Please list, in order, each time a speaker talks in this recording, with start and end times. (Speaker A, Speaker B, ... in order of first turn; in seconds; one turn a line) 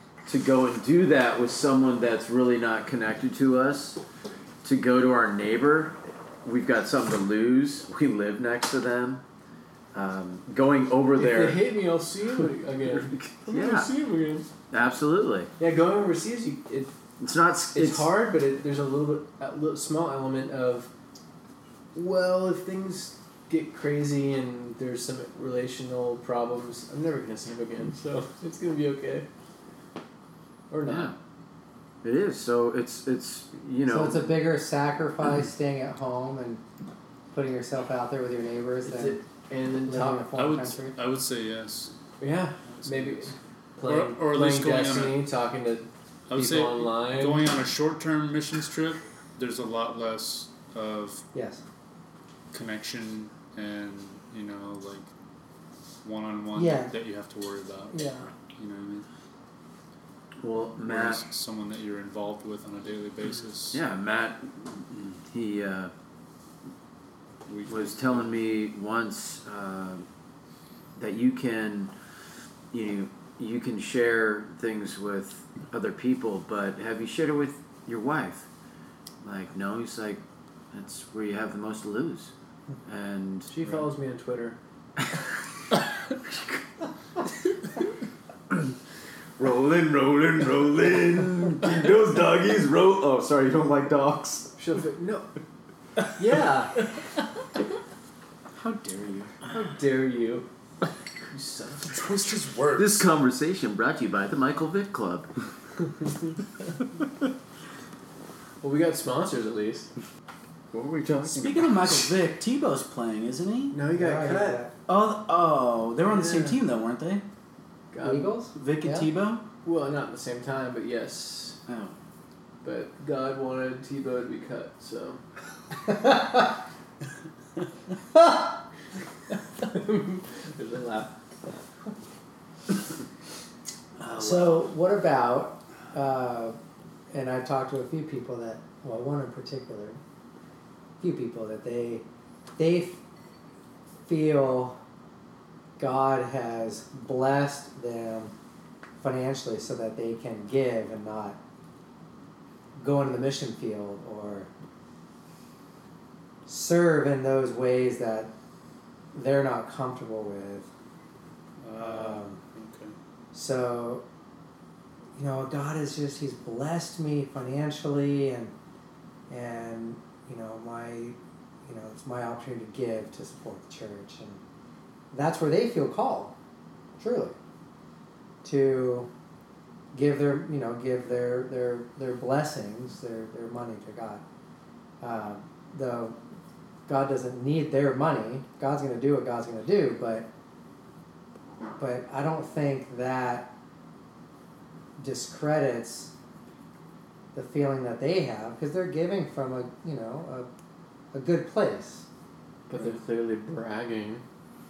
Speaker A: 0.3-4.0
Speaker A: 4.6-9.2
Speaker A: 9.9-11.7
Speaker B: 11.2-14.5
Speaker A: 12.9-13.9
Speaker A: 14.7-15.5
Speaker B: 15.6-16.9
Speaker A: 17.2-18.2
Speaker B: 17.7-20.9
Speaker B: 21.9-29.3
Speaker B: 30.7-31.1
Speaker A: 30.8-31.1
Speaker A: 32.0-34.3
Speaker C: 33.9-36.6
Speaker C: 37.3-39.2
Speaker B: 38.9-40.3
Speaker C: 39.9-41.0
Speaker D: 40.3-42.0
Speaker B: 42.2-47.5
Speaker D: 42.6-43.4
Speaker D: 43.9-45.2
Speaker D: 46.3-51.2
Speaker C: 51.3-51.6
Speaker D: 52.5-55.1
Speaker D: 56.0-59.1
Speaker C: 56.5-57.0
Speaker C: 57.9-58.3
Speaker A: 60.4-61.2
Speaker D: 60.8-63.8
Speaker A: 63.7-65.9
Speaker D: 67.5-68.4
Speaker A: 67.7-70.0
Speaker A: 71.0-71.9
Speaker A: 72.7-78.5
Speaker A: 79.2-82.3
Speaker A: 82.8-83.5
Speaker B: 83.5-84.6
Speaker A: 89.4-94.5
Speaker B: 94.6-95.3
Speaker B: 96.2-96.7
Speaker E: 98.5-99.3
Speaker B: 99.5-100.5
Speaker B: 101.3-102.0
Speaker D: 101.9-103.1
Speaker A: 102.8-105.3
Speaker B: 108.6-109.9
Speaker A: 110.7-112.1
Speaker E: 111.2-113.8
Speaker B: 113.7-114.7
Speaker C: 113.9-114.7
Speaker E: 114.9-117.2
Speaker B: 116.1-116.6
Speaker B: 117.9-118.5
Speaker C: 118.0-119.1
Speaker E: 118.5-119.5
Speaker B: 119.6-121.6
Speaker E: 121.7-122.0
Speaker B: 122.6-125.2
Speaker C: 125.9-126.5
Speaker B: 129.6-131.5
Speaker E: 134.0-134.7
Speaker C: 134.2-136.6
Speaker C: 137.1-140.0
Speaker C: 141.0-142.1
Speaker C: 142.6-143.0
Speaker C: 144.1-144.8
Speaker C: 145.8-148.3
Speaker C: 149.0-151.4
Speaker C: 152.8-154.5
Speaker C: 156.5-158.3
Speaker C: 159.1-160.7
Speaker D: 161.6-163.0
Speaker C: 161.8-162.4
Speaker C: 163.3-164.0
Speaker C: 165.2-168.5
Speaker C: 169.3-174.4
Speaker C: 175.1-176.3
Speaker C: 177.0-177.3
Speaker C: 178.4-179.1
Speaker C: 179.9-184.2
Speaker C: 185.0-186.2
Speaker C: 186.9-190.3
Speaker C: 191.8-193.5
Speaker C: 195.0-196.1
Speaker C: 197.3-200.5
Speaker C: 201.1-202.1
Speaker B: 202.7-204.2
Speaker D: 202.8-203.0